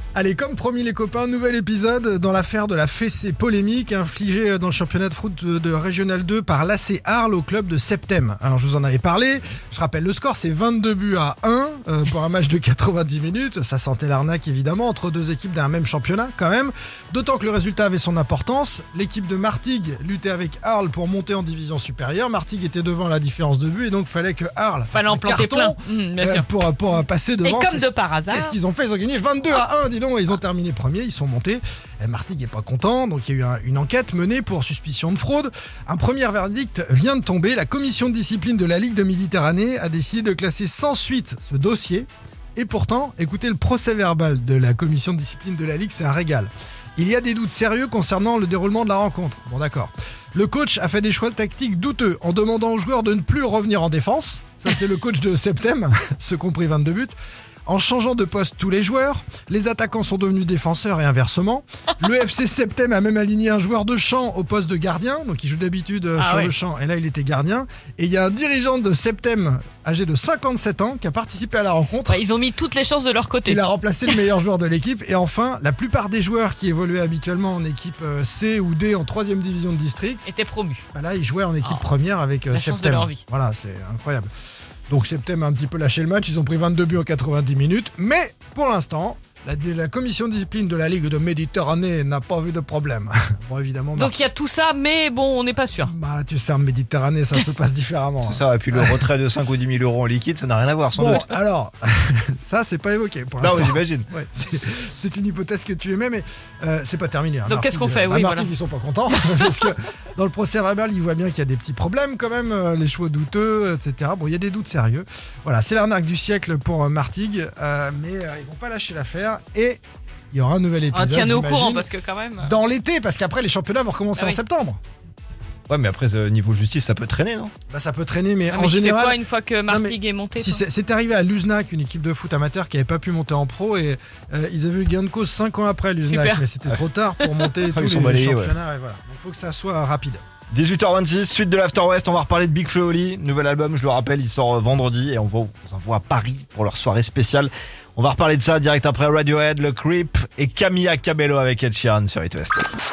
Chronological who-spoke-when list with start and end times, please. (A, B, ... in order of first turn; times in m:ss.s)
0:00.2-0:57.2 A
0:24.9-0:26.5 B
0:27.4-0:28.6 B
0:57.7-1:12.2 A
1:06.2-1:06.5 B
1:12.1-1:14.1 B
1:13.4-1:20.3 A
1:20.3-1:20.8 B
1:20.9-1:24.3 A
1:21.6-1:21.9 B
1:22.5-1:23.2 B
1:24.9-1:34.2 A
1:34.0-1:35.9 B
1:35.8-1:39.0 A
1:38.2-1:41.3 C
1:41.0-1:59.8 A
1:43.4-1:44.1 C
1:47.5-1:48.5 B
2:00.3-2:01.9 A
2:00.9-2:02.6 B
2:02.4-2:04.8 A
2:05.7-2:07.5 C
2:07.7-2:20.2 A
2:08.5-2:10.6 B
2:16.1-2:16.5 B
2:17.2-2:17.5 B
2:17.7-2:18.6 C
2:20.5-2:32.6 C